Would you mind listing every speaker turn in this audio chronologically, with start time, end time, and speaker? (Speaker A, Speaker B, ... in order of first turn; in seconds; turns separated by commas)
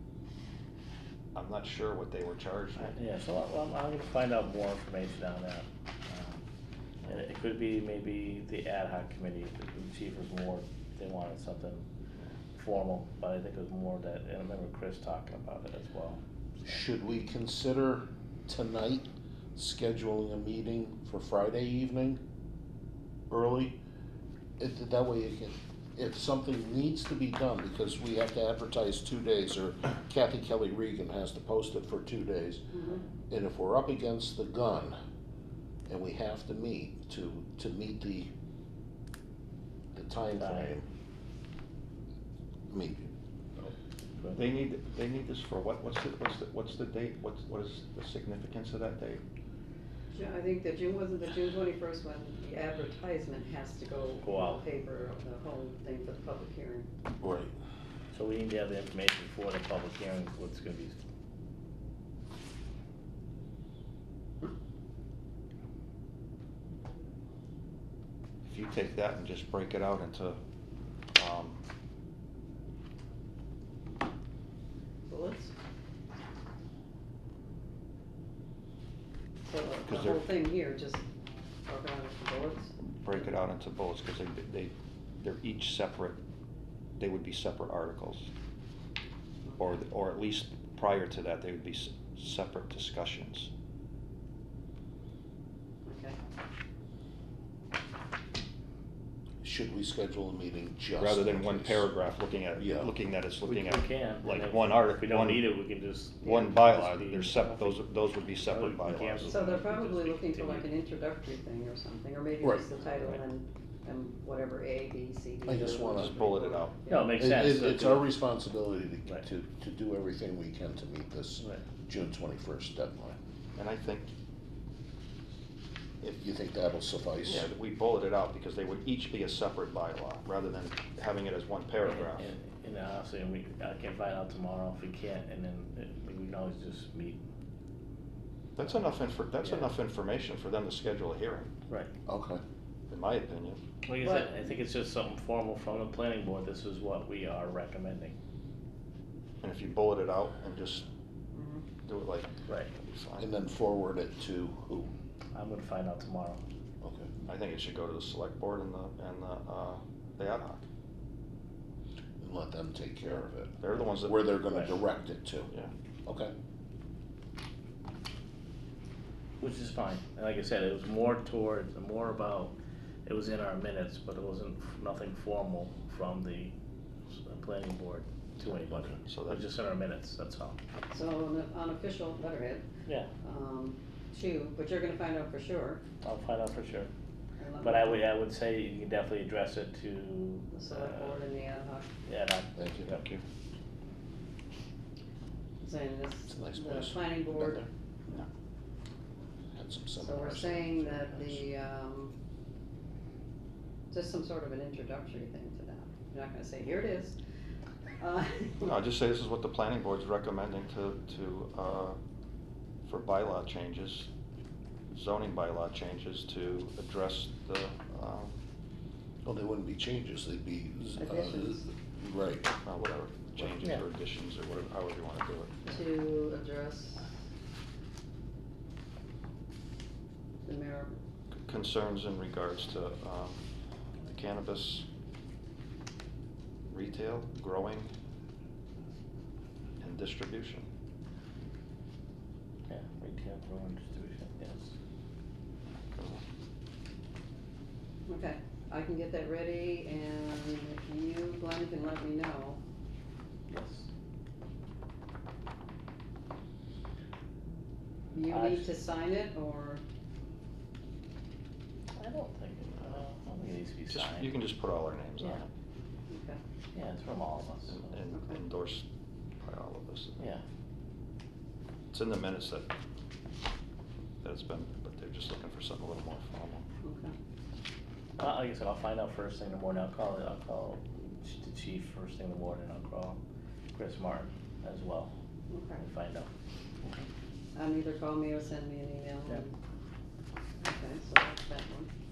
Speaker A: 1.3-3.0, Speaker B: 2.8-6.4, Speaker B: 7.0-11.8, Speaker B: 12.6-16.7, Speaker C: 16.6-22.2, Speaker C: 23.3-23.8, Speaker C: 24.6-32.6, Speaker D: 32.7-33.0, Speaker C: 33.3-35.0, Speaker C: 35.9-38.3, Speaker C: 39.9-40.8, Speaker B: 40.4-40.8, Speaker C: 42.7-43.7, Speaker A: 44.3-49.2, Speaker D: 50.1-56.9, Speaker B: 54.2-54.6, Speaker C: 57.2-57.5, Speaker B: 58.1-61.0, Speaker A: 68.4-70.4, Speaker A: 71.1-71.6, Speaker D: 75.1-75.5, Speaker D: 79.4-81.0, Speaker A: 79.9-80.2, Speaker D: 81.7-83.2, Speaker A: 82.8-86.2, Speaker A: 87.0-88.3, Speaker D: 89.4-89.8, Speaker A: 89.6-93.5, Speaker D: 95.8-96.2, Speaker C: 99.4-101.9, Speaker A: 101.0-105.4, Speaker C: 102.6-102.9, Speaker B: 103.4-107.8, Speaker A: 106.2-109.4, Speaker B: 108.4-110.7, Speaker D: 109.2-117.2, Speaker C: 112.4-112.7, Speaker C: 115.5-116.2, Speaker A: 115.7-116.8, Speaker B: 116.9-118.1, Speaker C: 117.1-123.2, Speaker B: 121.4-121.6, Speaker A: 123.5-124.1, Speaker C: 126.0-127.5, Speaker A: 127.2-132.3, Speaker B: 131.8-137.2, Speaker A: 138.6-141.5, Speaker B: 139.4-139.7, Speaker C: 142.1-142.4, Speaker A: 142.9-143.6, Speaker B: 143.8-148.1, Speaker D: 144.0-144.3, Speaker A: 149.4-150.8, Speaker D: 151.3-151.6, Speaker A: 151.8-153.3, Speaker C: 153.2-154.9, Speaker B: 155.3-156.4, Speaker C: 156.8-157.1, Speaker A: 157.2-160.6, Speaker C: 162.2-165.5, Speaker A: 163.6-164.3, Speaker C: 166.1-166.3, Speaker B: 169.4-172.5, Speaker B: 173.1-176.5, Speaker B: 177.1-180.6, Speaker C: 178.5-179.0, Speaker A: 179.1-179.4, Speaker D: 180.9-182.7, Speaker D: 183.2-185.8, Speaker B: 186.0-186.9, Speaker D: 187.4-188.0, Speaker B: 187.6-191.2, Speaker D: 190.5-191.9, Speaker B: 192.1-193.1, Speaker C: 192.6-192.9, Speaker A: 192.9-193.2, Speaker D: 195.6-197.7, Speaker C: 196.3-197.7, Speaker C: 199.5-201.4, Speaker D: 200.0-202.1, Speaker D: 203.9-207.1, Speaker D: 208.0-208.7, Speaker A: 208.6-212.0, Speaker A: 212.8-214.1, Speaker A: 214.9-218.4, Speaker C: 219.2-222.5, Speaker D: 221.0-221.7, Speaker A: 222.6-225.6, Speaker D: 225.6-227.0, Speaker D: 230.4-230.9, Speaker A: 231.4-233.4, Speaker A: 234.1-234.8, Speaker A: 236.7-237.9, Speaker A: 239.8-240.7, Speaker B: 242.7-244.7, Speaker A: 245.9-246.2, Speaker D: 248.1-252.6, Speaker B: 253.5-253.9, Speaker D: 258.1-259.8, Speaker B: 258.3-258.7, Speaker B: 261.9-264.4, Speaker A: 263.9-265.5, Speaker D: 266.1-266.4, Speaker B: 266.7-267.9, Speaker A: 267.7-268.9, Speaker D: 268.1-268.4, Speaker A: 269.4-270.2, Speaker A: 271.9-272.7, Speaker A: 274.2-276.6, Speaker D: 276.8-277.1, Speaker B: 278.2-283.2, Speaker B: 283.7-285.1, Speaker D: 285.5-285.8, Speaker B: 285.8-286.3, Speaker D: 287.5-289.5, Speaker D: 290.6-291.9